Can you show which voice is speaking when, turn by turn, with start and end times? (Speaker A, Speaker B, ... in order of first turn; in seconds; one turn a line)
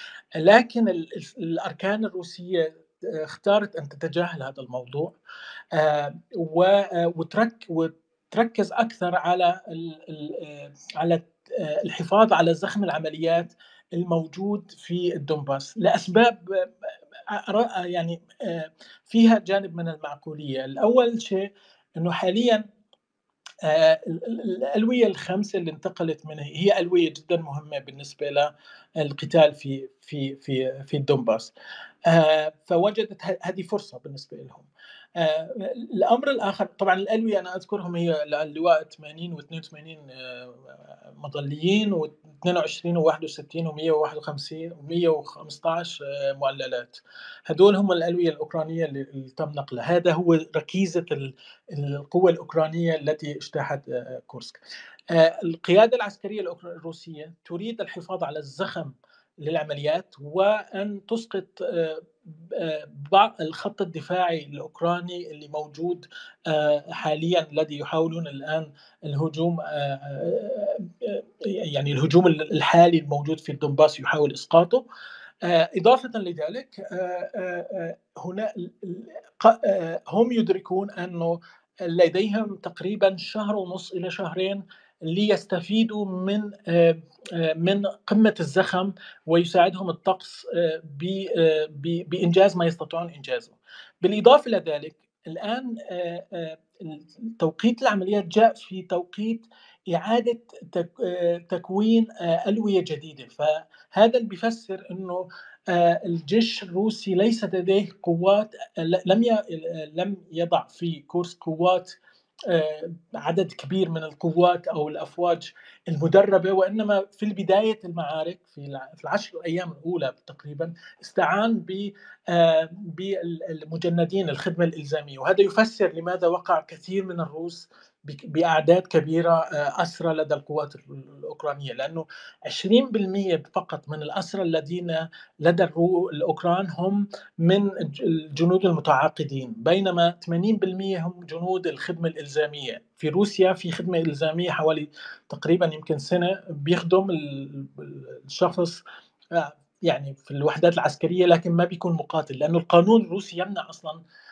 Speaker A: 0.4-5.1
Speaker A: 5.7-21.4
Speaker A: 22.0-22.6
Speaker A: 23.6-31.5
Speaker A: 32.0-54.6
Speaker A: 55.1-74.8
Speaker A: 75.4-112.0
Speaker A: 112.5-148.8
Speaker A: 149.3-154.0